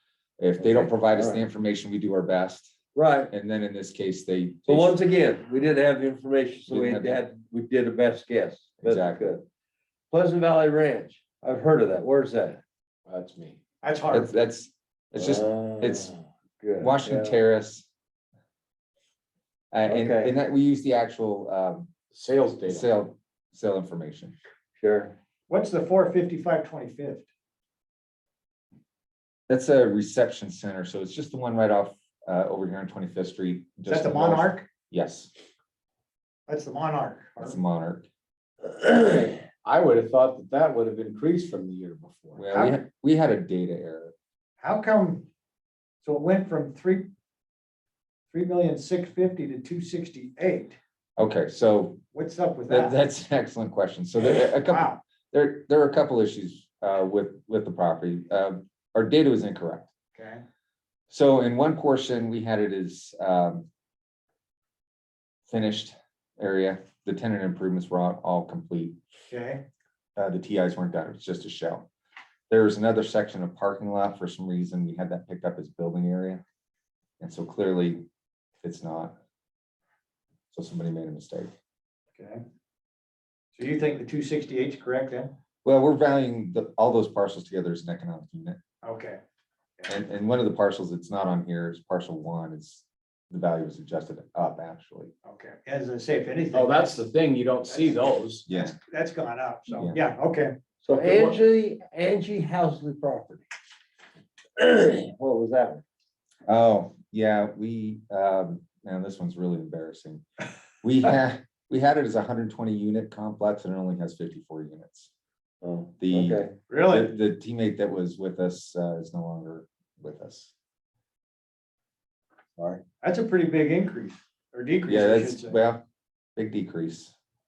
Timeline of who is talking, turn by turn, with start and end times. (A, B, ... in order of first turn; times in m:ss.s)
0:00.4-0:02.7 A
0:00.6-0:01.4 B
0:02.9-0:03.3 B
0:03.3-0:05.0 A
0:04.7-0:09.4 B
0:06.7-0:07.2 A
0:08.8-0:09.3 A
0:10.1-0:12.6 B
0:13.1-0:13.6 C
0:13.8-0:14.3 D
0:14.1-0:16.1 A
0:15.2-0:17.4 B
0:16.8-0:17.9 A
0:19.7-0:21.9 A
0:19.8-0:20.3 B
0:22.1-0:22.8 C
0:22.6-0:24.3 A
0:24.8-0:25.2 B
0:25.5-0:27.3 D
0:29.5-0:35.3 A
0:33.8-0:34.7 D
0:36.5-0:37.6 D
0:37.4-0:38.1 A
0:39.6-0:42.6 C
0:42.3-0:44.1 A
0:44.6-0:45.3 D
0:46.0-0:47.1 D
0:48.3-0:50.8 D
0:51.2-0:52.0 A
0:52.1-0:53.0 D
0:52.7-0:59.9 A
0:54.2-0:55.0 D
1:00.1-1:00.4 D
1:01.1-1:03.7 A
1:05.5-1:09.0 A
1:09.3-1:09.6 D
1:10.2-1:11.9 A
1:12.5-1:16.4 A
1:17.2-1:18.1 A
1:18.6-1:19.2 A
1:20.5-1:21.5 A
1:22.2-1:22.4 D
1:23.5-1:25.3 D
1:25.6-1:28.6 A
1:28.8-1:29.2 D
1:29.9-1:35.1 A
1:35.2-1:36.9 D
1:36.5-1:38.4 C
1:38.4-1:38.8 A
1:38.8-1:40.5 D
1:40.8-1:43.5 B
1:40.9-1:41.4 C
1:44.6-1:45.8 B
1:46.5-1:50.2 A
1:50.8-1:55.1 A
1:55.6-1:56.5 B
1:56.0-2:00.5 A
1:56.7-1:57.1 D
2:03.0-2:05.6 D
2:04.9-2:05.8 A
2:06.4-2:07.1 A